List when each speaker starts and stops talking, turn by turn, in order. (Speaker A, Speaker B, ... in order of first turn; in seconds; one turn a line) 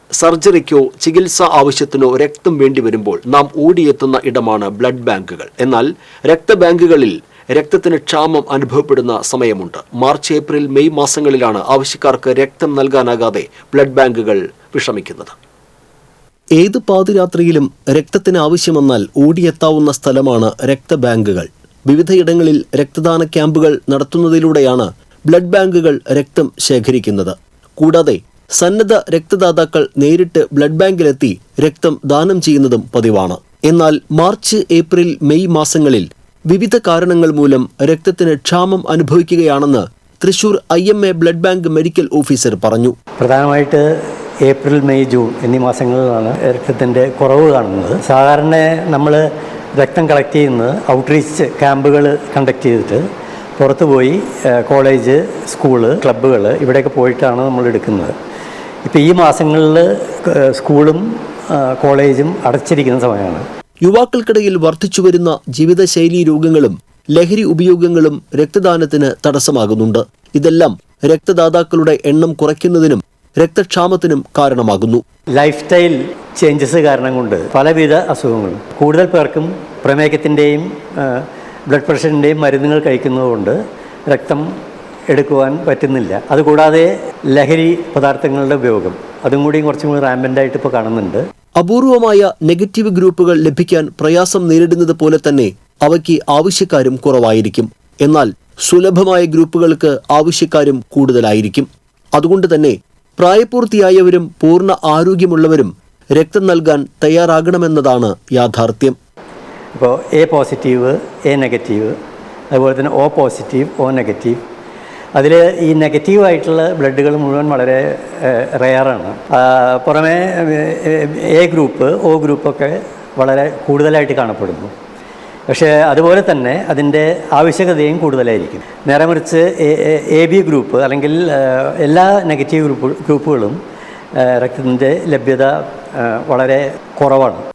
Speaker A: 0.2-15.3
Speaker A: 16.6-43.0
Speaker B: 43.2-43.8
Speaker B: 44.4-49.2
Speaker B: 49.8-53.0
Speaker B: 53.6-58.1
Speaker B: 58.8-63.4
Speaker A: 63.8-75.0
Speaker B: 75.4-83.6
Speaker B: 84.1-84.5
Speaker B: 85.1-91.2
Speaker A: 91.6-109.0
Speaker B: 109.8-111.9
Speaker B: 112.5-114.4
Speaker B: 115.2-124.7
Speaker B: 125.5-133.6
Speaker B: 134.2-137.4